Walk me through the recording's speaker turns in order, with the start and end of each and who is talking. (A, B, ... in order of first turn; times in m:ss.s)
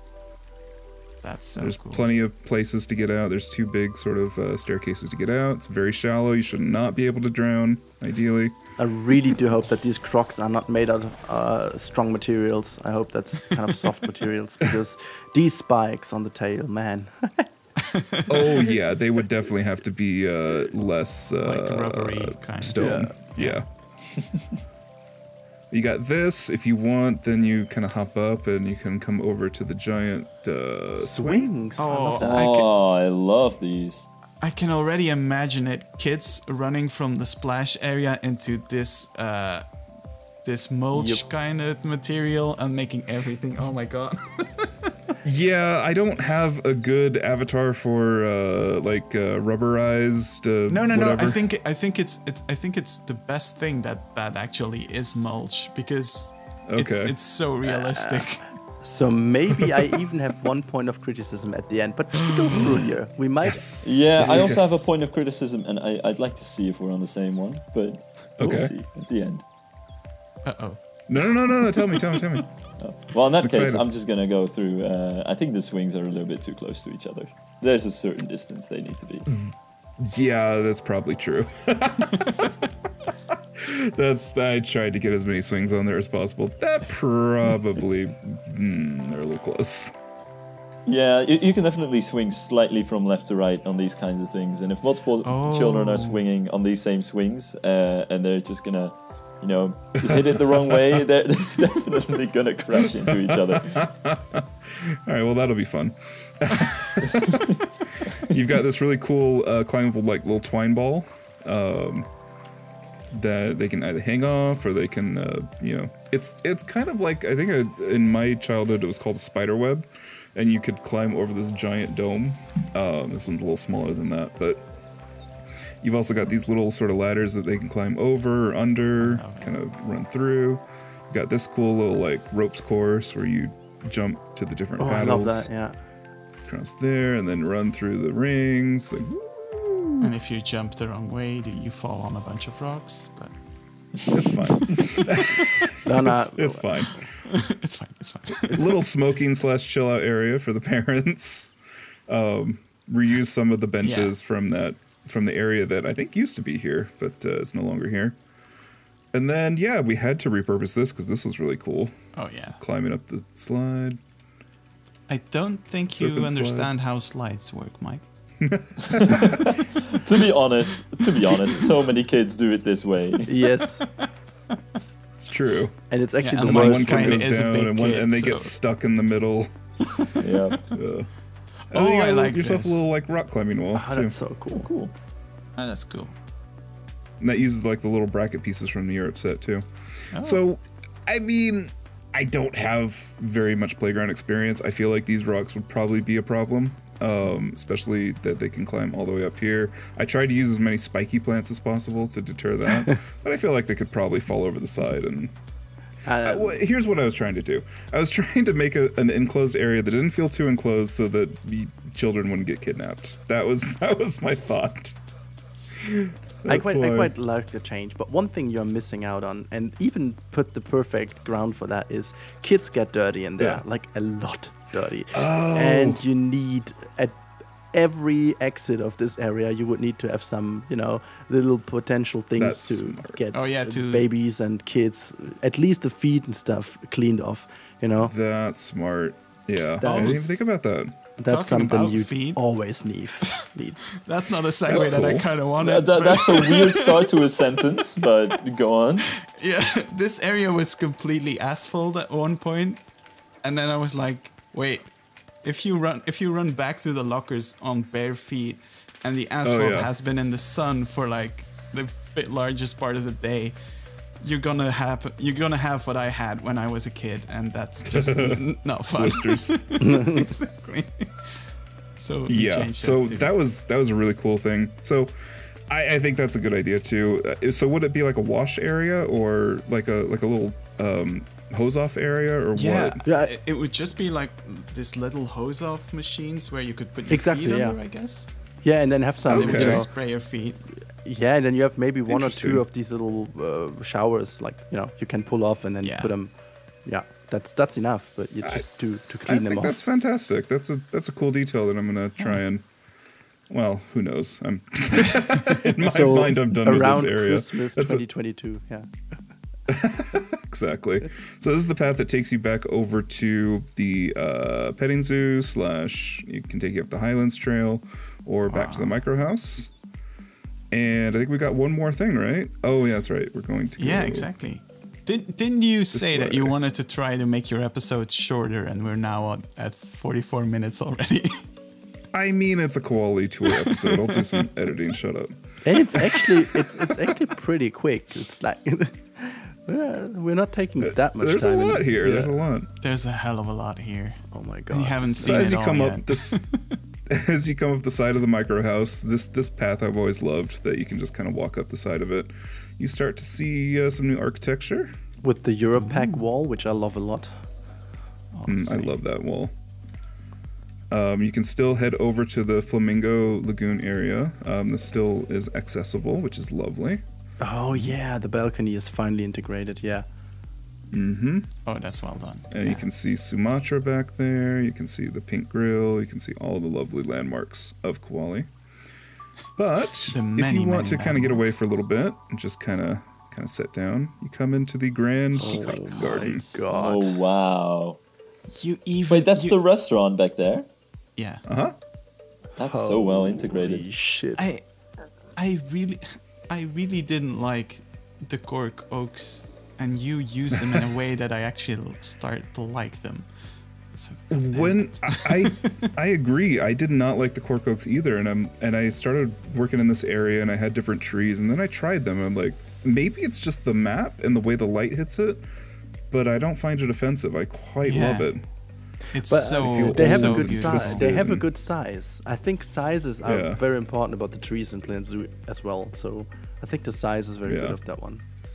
0:01.2-0:02.1 A
0:01.6-0:08.5 B
0:08.8-0:17.5 C
0:17.8-0:18.7 A
0:18.3-0:23.6 B
0:21.4-0:23.6 A
0:22.8-0:23.1 C
0:25.7-0:31.5 B
0:31.0-0:32.5 C
0:31.8-0:32.7 A
0:32.2-0:34.1 D
0:34.4-0:39.6 A
0:40.4-0:44.9 A
0:40.9-0:41.2 C
0:45.2-0:51.4 B
0:50.7-0:58.5 A
0:56.7-0:57.1 B
0:57.6-1:03.7 C
1:02.5-1:02.8 B
1:03.4-1:04.9 B
1:03.8-1:09.4 D
1:08.4-1:08.7 B
1:10.4-1:12.4 A
1:11.1-1:12.4 B
1:12.8-1:19.2 D
1:13.4-1:13.8 B
1:19.3-1:22.7 B
1:23.6-1:29.9 B
1:30.8-1:43.8 D
1:35.2-1:36.2 A
1:40.0-1:41.0 B
1:43.1-1:52.1 B
1:53.1-2:04.6 B
2:05.8-2:15.5 B
2:09.0-2:09.6 A
2:14.8-2:15.8 C
2:16.4-2:20.1 B
2:20.0-2:23.3 A
2:24.1-2:27.3 B
2:24.9-2:25.4 A
2:25.8-2:26.8 C
2:27.3-2:28.8 A
2:28.5-2:31.5 B
2:32.1-2:38.2 B
2:33.8-2:34.1 A
2:39.1-2:44.0 B
2:42.1-2:42.6 A
2:45.1-2:48.0 A
2:45.9-2:46.7 B
2:48.4-2:49.5 B
2:48.9-2:53.3 D
2:53.2-2:53.8 C
2:53.8-2:54.1 A
2:55.2-2:55.7 B
2:55.9-2:57.4 C
2:56.2-2:58.5 A
2:56.4-2:59.5 B
2:59.9-3:00.6 A
3:00.2-3:00.6 D
3:00.7-3:01.1 B
3:01.7-3:02.8 A
3:01.7-3:04.1 B
3:03.7-3:04.7 C
3:04.5-3:04.9 D
3:05.6-3:06.1 A
3:07.2-3:25.3 B
3:10.1-3:10.4 A
3:26.0-3:26.6 C
3:26.2-3:35.0 B
3:35.8-3:37.1 B
3:36.4-3:47.2 C
3:45.1-3:46.0 B
3:47.7-3:58.1 C
3:52.4-3:53.2 B
3:53.3-3:54.1 A
3:58.0-4:01.0 B
3:59.8-4:00.4 C
3:59.8-4:00.4 A
4:01.2-4:03.8 C
4:01.3-4:02.4 A
4:04.0-4:07.2 A
4:04.6-4:05.3 B
4:05.6-4:09.1 D
4:09.2-4:12.8 A
4:13.4-4:14.9 A
4:15.4-4:23.6 A
4:19.4-4:19.9 B
4:24.2-4:31.3 A
4:27.8-4:29.6 B
4:29.8-4:30.3 C
4:32.0-4:33.3 A
4:32.3-4:43.0 B
4:42.5-4:48.3 A
4:43.0-4:43.4 C
4:47.1-4:47.8 C
4:48.6-4:49.9 C
4:49.3-4:49.9 B
4:49.3-4:50.7 A
4:51.0-4:56.3 C
4:52.1-4:52.6 B
4:55.8-4:56.1 A
4:56.8-4:59.8 C
4:59.3-5:02.6 B
5:03.5-5:08.0 B
5:05.8-5:08.9 C
5:09.7-5:19.7 B
5:18.5-5:19.0 A
5:20.7-5:24.3 B
5:23.8-5:31.5 A
5:25.9-5:26.6 B
5:32.1-5:36.8 B
5:33.4-5:34.4 A
5:35.6-5:42.3 C
5:40.8-5:42.7 B
5:42.8-5:46.8 A
5:44.3-5:45.6 C
5:45.2-5:46.4 B
5:47.1-5:54.9 B
5:55.2-5:57.3 C
5:55.8-5:56.2 A
5:58.3-5:58.9 A
5:58.5-5:59.5 B
6:00.9-6:07.0 B
6:07.4-6:10.0 C
6:10.9-6:11.5 B
6:11.6-6:12.8 A
6:12.5-6:18.5 B
6:19.6-6:26.4 B
6:20.1-6:21.6 A
6:25.4-6:27.2 C
6:25.6-6:26.4 A
6:26.7-6:28.0 D
6:28.5-6:29.6 A
6:29.1-6:30.7 D
6:31.2-6:31.4 A
6:31.4-6:31.7 B
6:32.6-6:33.8 D
6:32.6-6:34.5 C
6:34.4-6:34.6 A
6:35.4-6:43.3 A
6:43.9-6:45.9 A
6:44.3-6:55.4 B
6:56.1-6:58.4 B
6:57.8-6:58.3 A
6:59.1-7:01.1 A
6:59.3-7:08.2 C
6:59.5-7:01.4 B
7:03.2-7:03.6 B
7:07.4-7:07.8 B